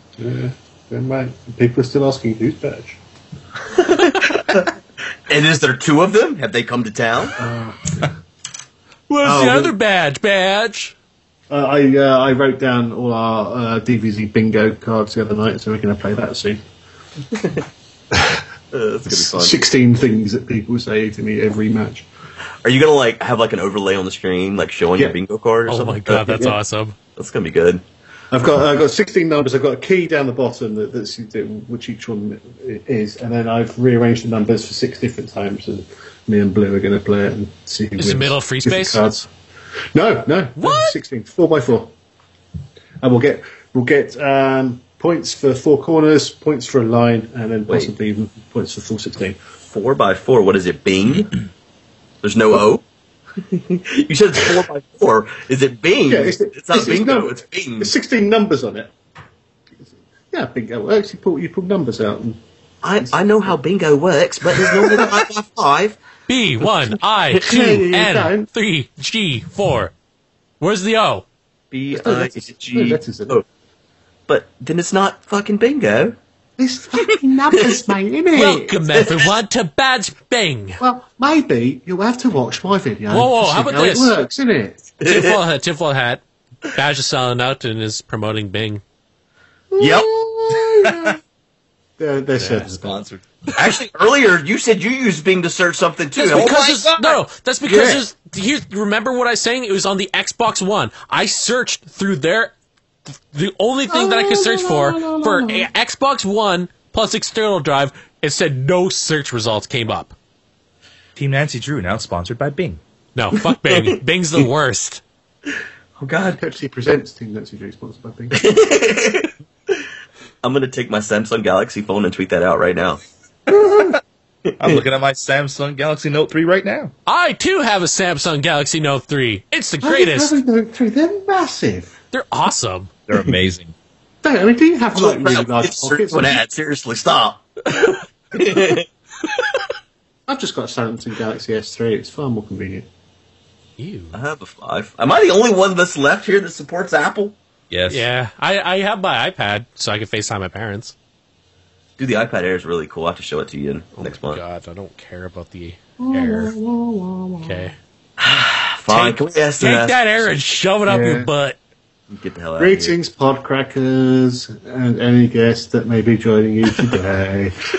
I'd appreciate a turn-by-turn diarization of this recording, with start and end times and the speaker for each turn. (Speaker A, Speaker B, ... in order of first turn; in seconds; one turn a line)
Speaker A: 0.2-3.0
Speaker B: 3.7-4.7
Speaker B: 5.3-7.4
Speaker A: 7.4-8.1
Speaker C: 9.1-10.9
Speaker A: 9.2-9.7
Speaker A: 11.5-16.6
Speaker A: 18.1-18.4
Speaker B: 18.7-19.6
Speaker A: 19.1-22.1
Speaker B: 22.6-26.4
Speaker C: 25.7-26.9
Speaker A: 26.3-26.5
Speaker B: 27.1-27.8
Speaker A: 28.3-39.2
Speaker C: 38.0-39.1
Speaker A: 39.9-41.9
Speaker C: 40.6-41.0
Speaker A: 43.0-49.4
Speaker B: 47.7-47.9
Speaker B: 49.7-51.4
Speaker B: 52.2-52.8
Speaker B: 53.4-57.9
Speaker A: 56.1-58.9
Speaker A: 60.3-62.4
Speaker B: 62.8-66.0
Speaker A: 64.5-65.2
Speaker C: 66.3-69.9
Speaker A: 67.3-68.5
Speaker C: 70.6-71.2
Speaker B: 71.7-73.4
Speaker A: 71.9-73.4
Speaker B: 74.3-76.1
Speaker A: 76.6-78.8
Speaker C: 78.3-80.8
Speaker B: 78.9-79.3
Speaker A: 80.8-84.9
Speaker C: 83.1-84.1
Speaker B: 85.0-85.4
Speaker C: 85.0-88.8
Speaker A: 89.8-91.2
Speaker B: 89.8-90.1
Speaker D: 90.8-91.1
Speaker A: 92.0-93.0
Speaker D: 92.5-93.6
Speaker B: 93.5-96.7
Speaker C: 96.2-102.5
Speaker D: 96.3-97.2
Speaker A: 97.7-98.0
Speaker C: 103.3-110.1
Speaker A: 103.9-105.7
Speaker D: 111.2-112.8
Speaker C: 113.1-115.0
Speaker B: 116.0-116.4
Speaker A: 116.4-118.5
Speaker B: 118.3-119.8
Speaker B: 120.4-123.0
Speaker A: 123.5-123.9
Speaker B: 124.5-124.8
Speaker D: 124.6-126.9
Speaker C: 127.0-130.4
Speaker A: 129.8-131.9
Speaker C: 132.1-132.9
Speaker D: 133.1-133.7
Speaker A: 134.2-136.4
Speaker B: 134.9-138.9
Speaker A: 140.3-142.9
Speaker C: 143.8-144.2
Speaker B: 144.1-147.3
Speaker D: 147.7-148.1
Speaker C: 147.9-150.9
Speaker B: 152.0-154.4
Speaker C: 154.0-156.5
Speaker A: 156.0-157.7
Speaker C: 157.4-157.8
Speaker B: 158.2-160.0
Speaker C: 158.9-161.6
Speaker A: 160.8-161.3
Speaker B: 162.1-162.9
Speaker A: 162.6-167.5